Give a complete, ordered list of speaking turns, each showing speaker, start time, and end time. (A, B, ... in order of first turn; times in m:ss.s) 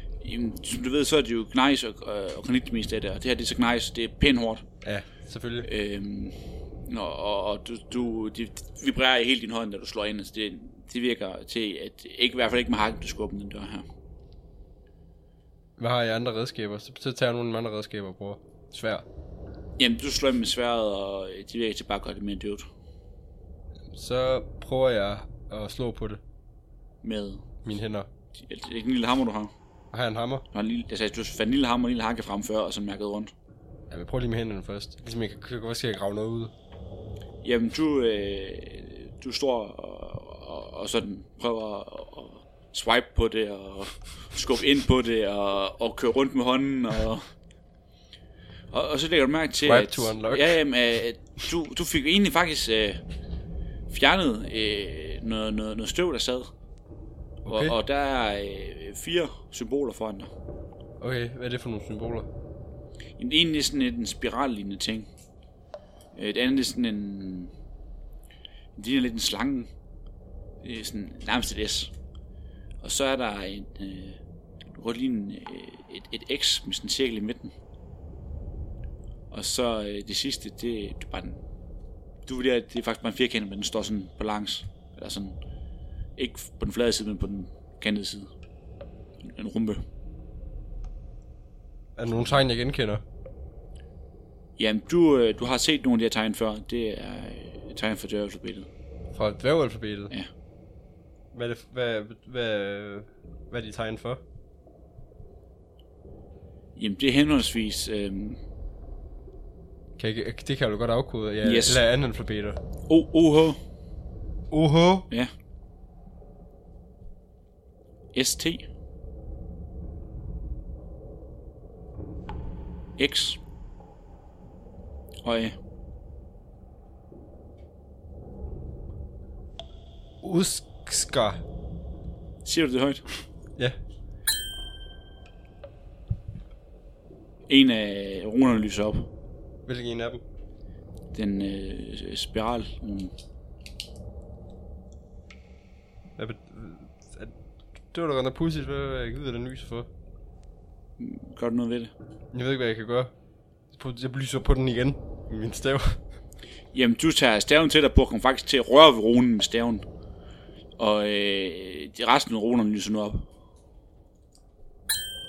0:00.2-0:04.6 A
0:04.8-0:05.7 B
0:05.6-0:06.4 A
0:06.9-0:13.8 A
0:15.8-0:19.0 B
0:19.8-0:22.6 A
0:23.9-0:26.2 B
0:27.0-0:27.4 A
0:27.6-0:28.1 B
0:28.4-0:29.5 A
0:29.9-0:30.4 B
0:30.5-0:33.3 A
0:33.9-0:36.5 B
0:37.4-0:47.2 A
0:48.7-0:53.0 A
0:49.6-0:50.6 B
0:53.9-0:56.5 A
0:57.4-0:57.7 B
0:57.5-1:00.3 A
1:01.0-1:02.3 B
1:03.2-1:05.1 A
1:06.1-1:07.5 A
1:08.8-1:09.7 A
1:10.6-1:11.9 A
1:12.8-1:14.2 A
1:14.7-1:17.5 A
1:19.3-1:21.4 A
1:22.2-1:25.4 A
1:26.2-1:28.3 A
1:29.2-1:29.8 A
1:32.0-1:33.0 B
1:34.6-1:38.7 A
1:39.1-1:40.1 B
1:41.3-1:44.2 B
1:46.8-1:48.4 A
1:50.0-1:52.6 B
1:51.4-1:51.8 A
1:52.9-1:53.6 A
1:54.5-1:55.1 B
1:58.1-1:58.6 A
2:03.0-2:03.4 A
2:05.2-2:05.6 A
2:10.2-2:11.4 B
2:12.4-2:13.0 A
2:17.5-2:19.1 A
2:19.6-2:20.2 B
2:21.1-2:23.1 A
2:26.2-2:29.9 B
2:31.0-2:31.9 A
2:32.3-2:33.1 B
2:33.7-2:36.0 B
2:36.7-2:39.8 A
2:40.8-2:43.2 A